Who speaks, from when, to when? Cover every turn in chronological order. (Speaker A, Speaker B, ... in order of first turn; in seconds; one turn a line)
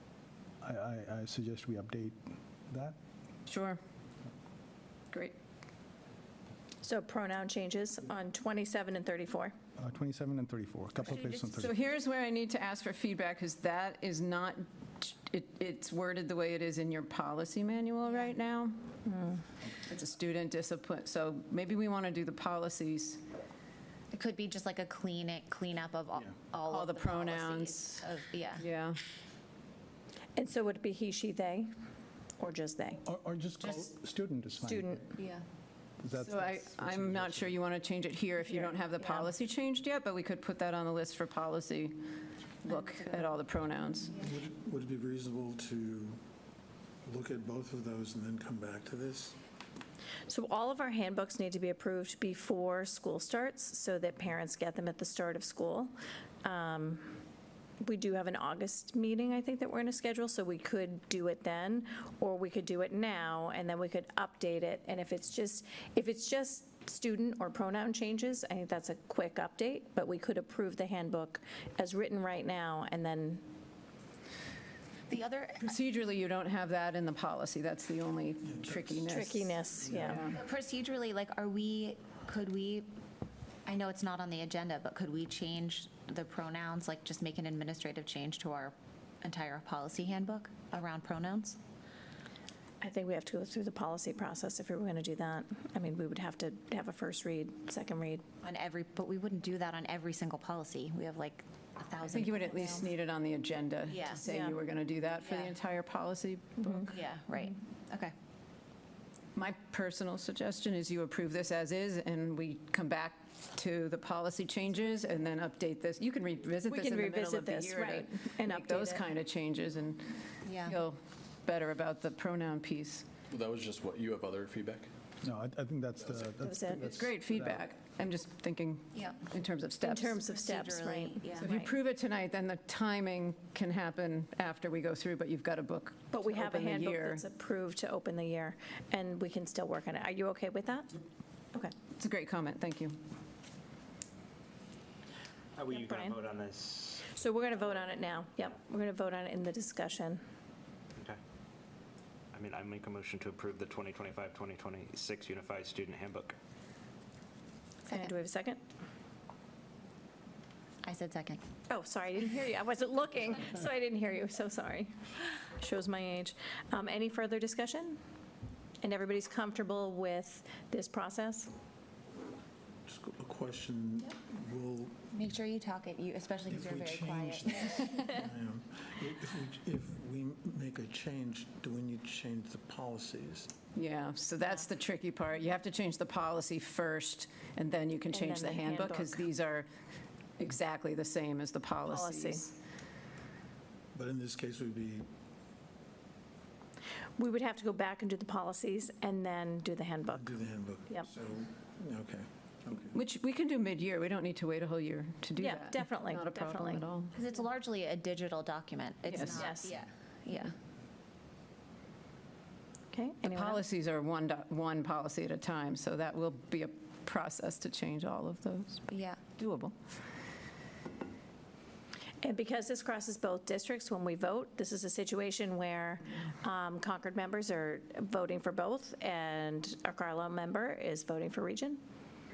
Speaker A: 0.6-3.0
Speaker B: 3.5-3.8
Speaker C: 6.8-9.6
Speaker A: 9.8-11.8
Speaker B: 11.6-18.8
Speaker C: 19.1-19.4
Speaker B: 19.9-23.2
Speaker D: 24.1-28.6
Speaker B: 26.6-29.0
Speaker C: 30.4-31.7
Speaker C: 32.4-33.0
Speaker A: 33.0-35.2
Speaker C: 34.6-35.1
Speaker D: 35.2-35.4
Speaker A: 36.0-37.6
Speaker B: 36.2-42.0
Speaker C: 38.5-38.7
Speaker B: 42.6-44.1
Speaker D: 42.7-43.2
Speaker E: 44.2-46.2
Speaker E: 47.0-49.4
Speaker C: 50.3-57.2
Speaker C: 57.8-73.5
Speaker D: 75.1-75.7
Speaker B: 75.6-80.4
Speaker E: 78.4-79.1
Speaker C: 79.1-80.2
Speaker E: 79.8-80.2
Speaker D: 80.3-82.9
Speaker D: 83.7-91.6
Speaker C: 92.8-98.3
Speaker D: 98.4-102.9
Speaker B: 102.1-106.9
Speaker D: 103.9-104.3
Speaker C: 104.3-104.6
Speaker D: 105.2-105.5
Speaker D: 106.9-108.1
Speaker B: 109.4-123.0
Speaker C: 116.6-119.1
Speaker D: 120.4-120.8
Speaker F: 123.3-124.9
Speaker A: 125.2-127.7
Speaker F: 126.0-126.4
Speaker C: 126.4-126.8
Speaker B: 126.9-130.2
Speaker D: 128.9-129.2
Speaker C: 129.8-131.8
Speaker D: 130.3-131.5
Speaker B: 131.3-137.2
Speaker C: 136.1-141.8
Speaker B: 142.0-143.0
Speaker G: 145.6-147.8
Speaker C: 145.7-146.2
Speaker C: 147.1-150.2
Speaker G: 152.3-156.4
Speaker C: 157.9-158.6
Speaker D: 160.8-161.4
Speaker C: 161.7-164.9
Speaker C: 165.5-168.0
Speaker C: 168.8-171.5
Speaker E: 172.9-175.1
Speaker D: 175.1-178.2
Speaker E: 176.5-183.5
Speaker B: 183.8-189.7
Speaker C: 188.1-189.2
Speaker B: 190.4-192.5
Speaker C: 191.9-192.5
Speaker E: 193.9-195.1
Speaker C: 197.2-200.3
Speaker E: 200.1-203.0
Speaker B: 202.9-207.1
Speaker C: 205.4-206.9
Speaker D: 207.1-210.5
Speaker B: 209.1-209.5
Speaker C: 209.4-209.7
Speaker C: 212.9-213.6
Speaker B: 213.2-219.8
Speaker D: 218.9-219.2
Speaker C: 222.2-231.8